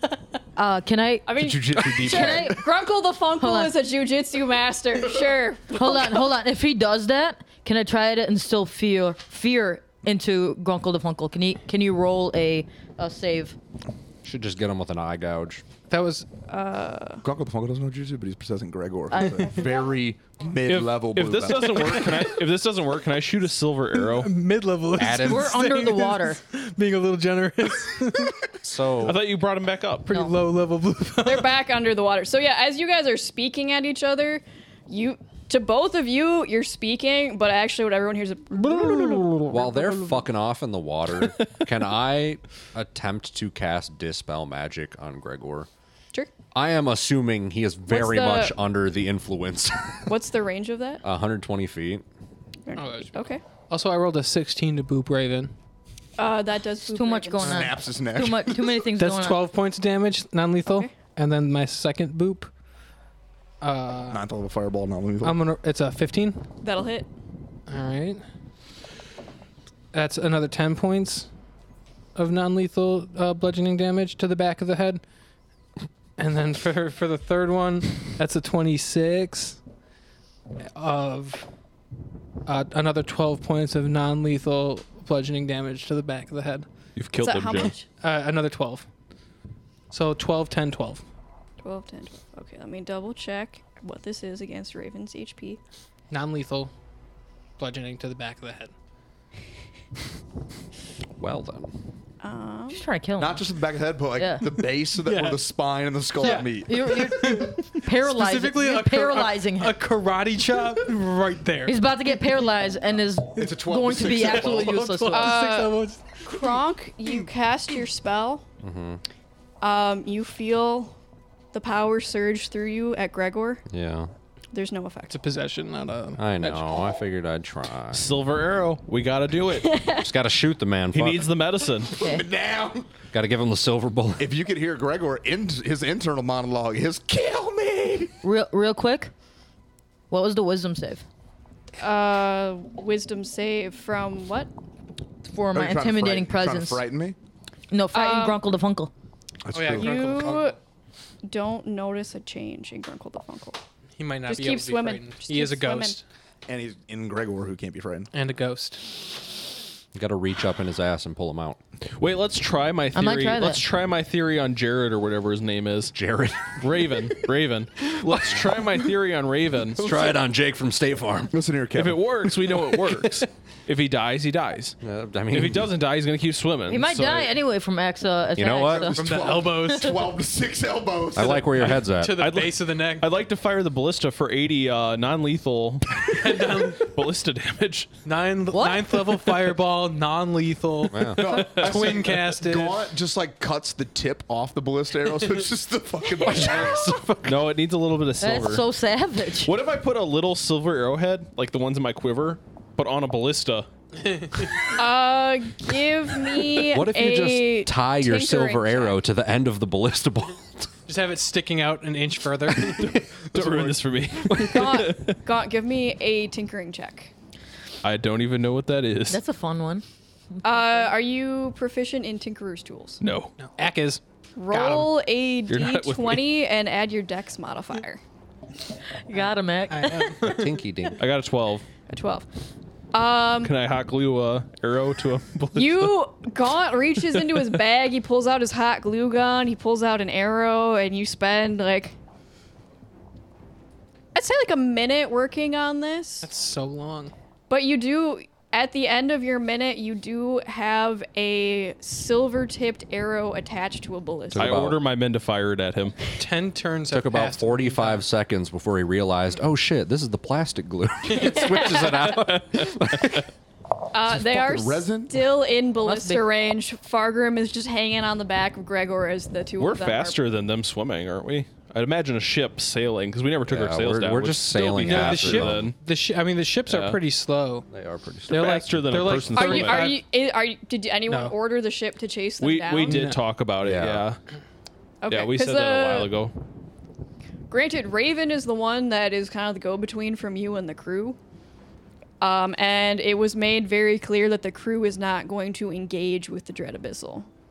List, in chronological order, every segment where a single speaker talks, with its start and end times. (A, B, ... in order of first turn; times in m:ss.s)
0:00.6-0:02.6 A
0:01.3-0:06.3 B
0:01.4-0:02.7 C
0:03.4-0:03.8 A
0:05.7-0:13.6 A
0:14.2-0:15.6 D
0:15.9-0:16.3 E
0:16.5-0:17.2 B
0:17.2-0:22.3 C
0:19.1-0:19.8 A
0:20.7-0:24.3 F
0:24.0-0:28.4 E
0:25.0-0:25.5 D
0:25.1-0:26.4 A
0:28.6-0:29.2 D
0:29.0-0:30.1 F
0:30.1-0:31.6 E
0:31.2-0:40.2 B
0:38.8-0:39.5 E
0:39.5-0:45.7 D
0:46.5-0:50.1 D
0:47.9-0:48.6 B
0:50.1-0:51.0 B
0:51.0-0:52.0 D
0:52.7-0:53.4 B
0:52.7-0:55.5 E
0:56.2-0:57.7 B
0:56.9-0:59.4 A
0:57.4-0:58.7 C
0:59.0-1:02.5 E
1:00.7-1:01.0 B
1:03.6-1:04.2 E
1:04.1-1:05.4 C
1:05.2-1:06.4 E
1:06.6-1:07.1 B
1:07.7-1:08.2 E
1:09.9-1:11.3 E
1:12.2-1:15.0 E
1:16.2-1:19.6 E
1:20.7-1:21.5 E
1:22.5-1:26.7 E
1:27.0-1:27.7 F
1:27.2-1:27.9 B
1:28.0-1:28.9 E
1:29.9-1:31.0 E
1:31.6-1:35.6 B
1:36.1-1:36.7 E
1:37.6-1:38.7 E
1:41.2-1:41.7 D
1:42.2-1:42.8 B
1:42.7-1:43.4 A
1:43.2-1:47.4 C
1:44.2-1:44.5 A
1:45.0-1:45.5 E
1:46.2-1:51.8 E
1:46.2-1:49.8 A
1:51.7-1:55.4 A
1:53.4-1:54.8 C
1:54.0-1:57.3 E
1:55.1-1:58.4 B
1:58.6-1:59.0 D
1:59.6-2:01.0 B
2:01.5-2:03.6 B
2:03.7-2:04.1 D
2:04.5-2:05.2 B
2:05.1-2:06.7 E
2:06.2-2:08.1 D
2:07.9-2:09.7 F
2:09.6-2:10.1 B
2:09.9-2:11.4 D
2:10.9-2:12.0 F
2:11.9-2:12.9 C
2:12.0-2:12.2 A
2:13.1-2:14.3 D
2:14.2-2:18.1 C
2:18.2-2:19.1 A
2:20.1-2:21.0 A
2:21.8-2:24.5 B
2:25.3-2:26.8 A
2:25.5-2:27.2 C
2:27.7-2:28.9 A
2:27.9-2:28.4 B
2:29.4-2:30.2 C
2:29.5-2:30.6 E
2:29.8-2:30.6 B
2:31.2-2:33.6 B
2:34.0-2:36.0 E
2:34.3-2:36.0 B
2:36.5-2:38.1 C
2:38.1-2:38.9 E
2:39.9-2:41.6 D
2:42.0-2:46.0 F
2:43.0-2:43.6 A
2:45.9-2:46.7 D
2:46.6-2:50.1 F
2:49.8-2:51.3 D
2:51.3-2:52.3 C
2:51.8-2:54.8 F
2:54.8-2:55.7 D
2:55.3-2:57.3 F
2:56.7-2:59.0 A
2:58.4-2:59.0 D
2:58.7-3:01.8 C
2:58.9-3:00.0 E
3:01.1-3:02.2 D
3:01.6-3:03.1 E
3:02.2-3:07.9 F
3:06.0-3:06.9 E
3:08.0-3:12.9 E
3:08.5-3:09.0 A
3:10.9-3:11.5 D
3:11.1-3:17.0 C
3:11.3-3:12.0 F
3:16.2-3:17.5 D
3:17.2-3:18.6 F
3:18.2-3:19.5 A
3:19.4-3:23.7 F
3:24.0-3:24.7 E
3:24.7-3:29.0 B
3:26.7-3:30.7 D
3:30.9-3:32.9 E
3:32.6-3:35.2 F
3:33.0-3:33.8 C
3:34.4-3:37.1 B
3:37.8-3:39.2 F
3:39.1-3:39.8 A
3:40.4-3:40.9 A
3:40.4-3:43.0 B
3:43.0-3:43.3 F
3:43.4-3:44.9 E
3:44.4-3:48.0 B
3:45.5-3:46.3 F
3:49.0-3:50.2 A
3:49.2-3:50.6 E
3:50.2-3:51.0 D
3:51.0-3:51.7 F
3:51.9-3:52.3 B
3:52.9-3:53.5 B
3:53.4-3:56.0 F
3:55.5-4:02.0 B
3:57.1-3:57.5 F
4:04.1-4:06.3 B
4:06.2-4:07.1 E
4:07.5-4:14.6 B
4:14.3-4:14.8 D
4:14.4-4:16.0 F
4:16.2-4:18.0 E
4:16.9-4:23.3 D
4:21.1-4:21.5 E
4:21.2-4:21.9 B
4:21.5-4:23.3 F
4:23.9-4:30.2 B
4:24.1-4:25.3 C
4:25.8-4:26.3 A
4:29.6-4:35.8 F
4:33.5-4:35.7 D
4:34.8-4:37.7 E
4:36.7-4:37.0 F
4:37.7-4:38.6 D
4:38.3-4:40.0 E
4:38.3-4:39.9 F
4:39.3-4:43.0 B
4:41.1-4:41.4 E
4:42.4-4:44.2 F
4:42.9-4:43.2 E
4:43.6-4:44.1 D
4:45.0-4:46.1 B
4:45.1-4:46.3 F
4:47.5-4:51.2 B
4:52.2-4:57.3 B